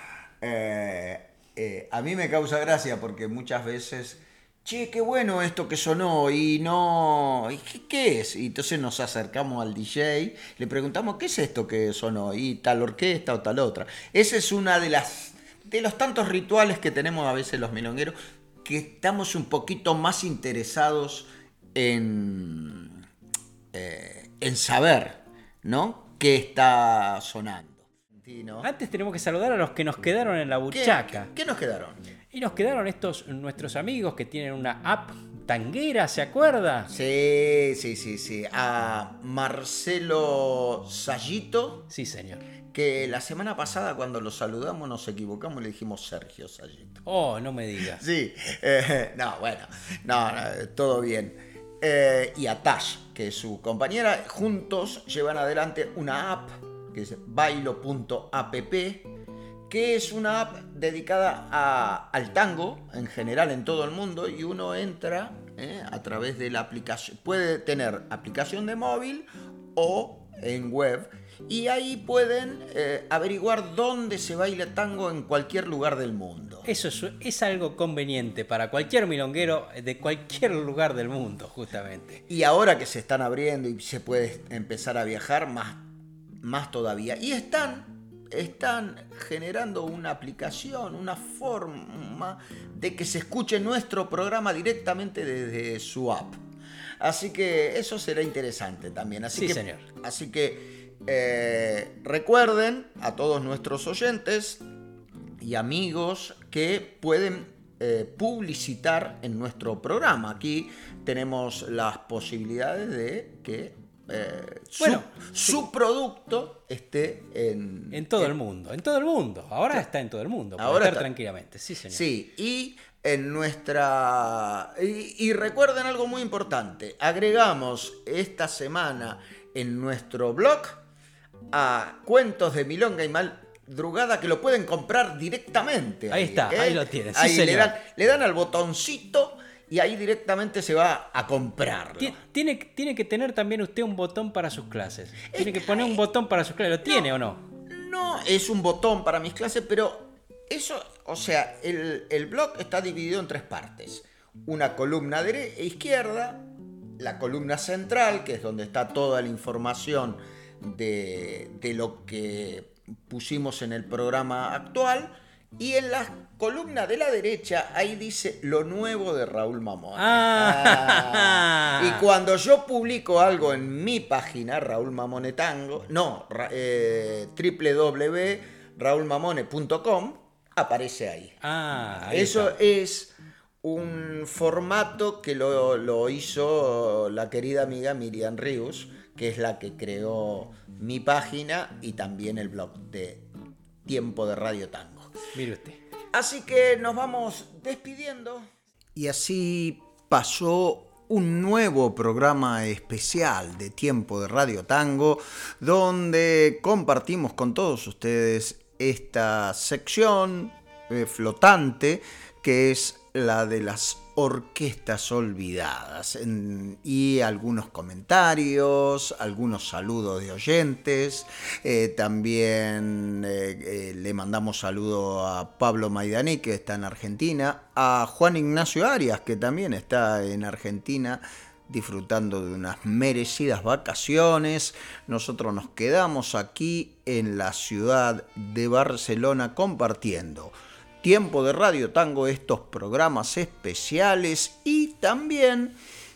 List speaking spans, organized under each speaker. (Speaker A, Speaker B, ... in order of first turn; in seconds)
Speaker A: 0.4-23.0, 23.7-28.7, 30.7-32.0, 36.9-41.9, 42.7-47.0, 48.0-59.1, 59.7-76.7, 82.3-85.9, 86.4-96.4, 97.0-104.6, 105.4-118.3, 120.6-121.1, 121.9-130.8, 131.5-142.2, 145.3-146.0, 147.7-181.4, 182.0-193.3, 193.8-195.1, 196.1-245.8
Speaker B: 28.6-31.3, 32.3-36.9, 41.9-42.4, 47.0-48.0, 76.6-82.2, 99.3-99.8, 114.8-115.6, 117.9-122.0, 136.1-137.7, 142.0-147.4, 170.0-172.0, 181.4-182.5, 195.3-195.8